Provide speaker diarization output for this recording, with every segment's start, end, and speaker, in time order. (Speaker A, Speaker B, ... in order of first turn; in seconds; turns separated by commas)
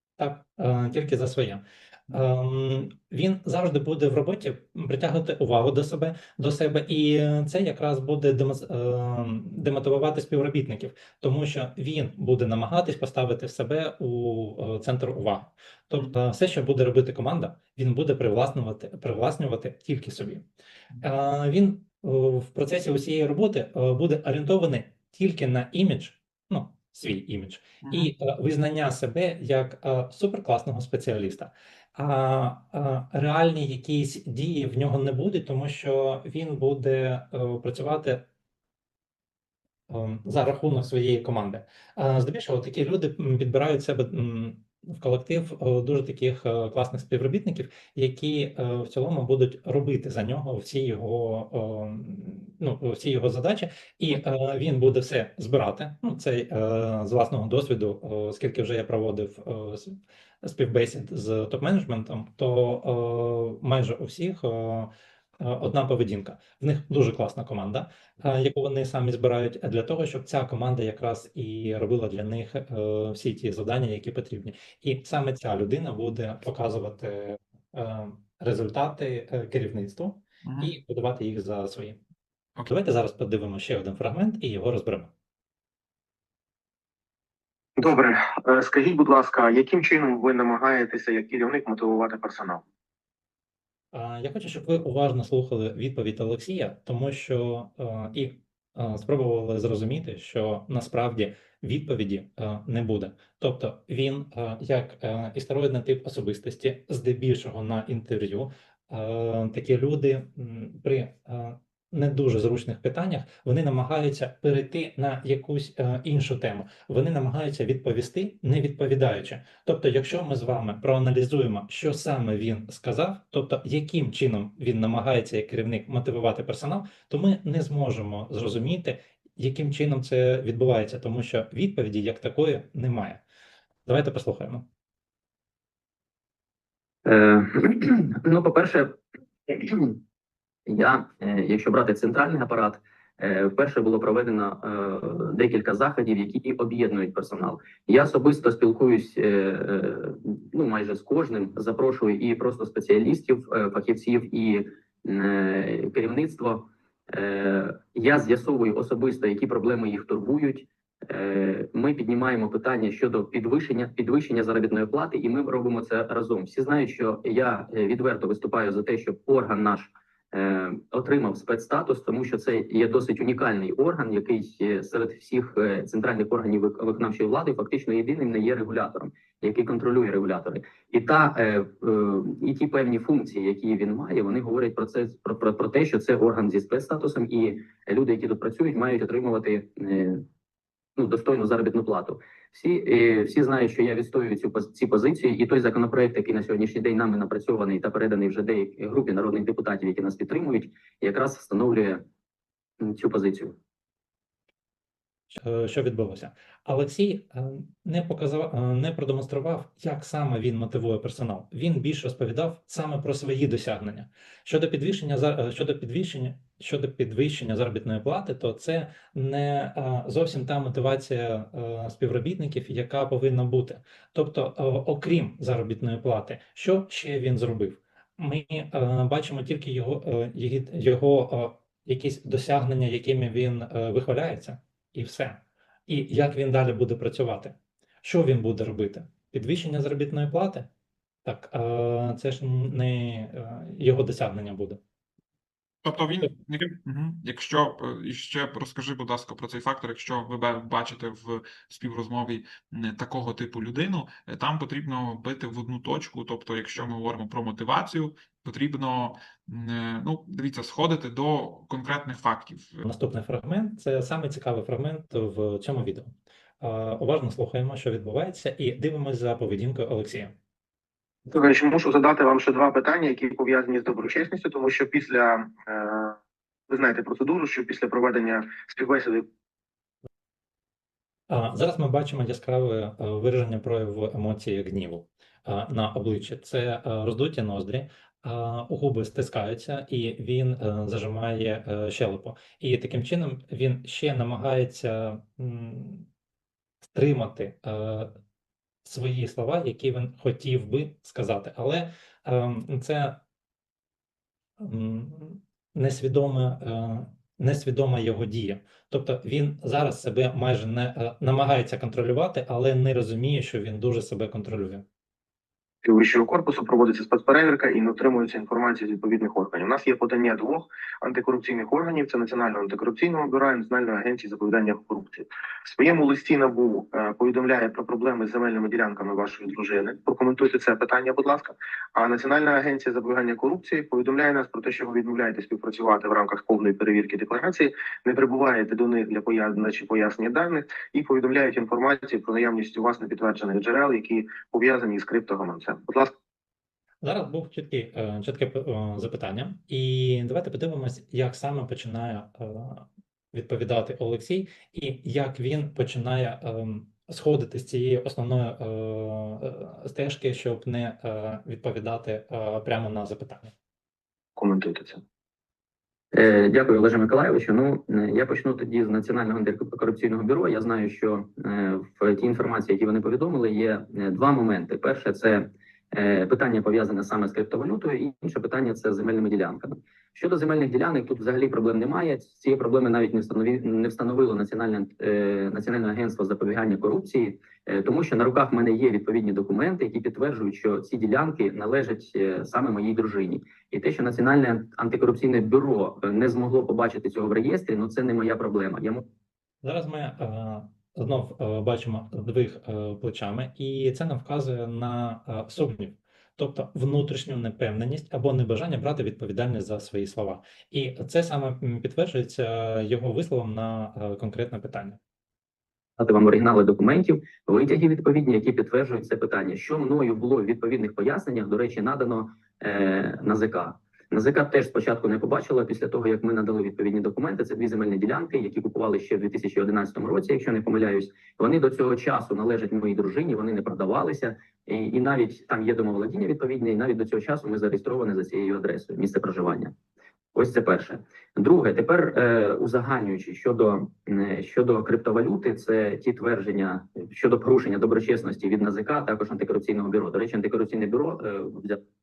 Speaker A: 0.2-20.5, Speaker A: 21.0-38.2, Speaker B: 27.8-28.1, Speaker A: 39.9-82.0, Speaker B: 80.5-80.7, Speaker A: 82.7-85.1, Speaker C: 87.8-92.6, Speaker A: 93.9-133.2, Speaker A: 133.9-134.7, Speaker D: 137.1-140.0, Speaker D: 140.7-190.2, Speaker D: 191.0-202.0, Speaker D: 202.8-203.6, Speaker A: 205.3-240.7, Speaker A: 241.2-244.8, Speaker B: 245.8-262.8, Speaker A: 262.8-270.3, Speaker C: 271.3-276.2, Speaker C: 276.7-279.2, Speaker A: 281.3-296.1, Speaker A: 296.9-298.1, Speaker A: 298.9-303.2, Speaker A: 304.6-314.9, Speaker C: 315.8-346.1, Speaker A: 347.0-363.5, Speaker C: 364.4-365.0, Speaker D: 366.1-399.0, Speaker A: 399.6-415.0, Speaker D: 416.0-439.7, Speaker D: 440.4-451.8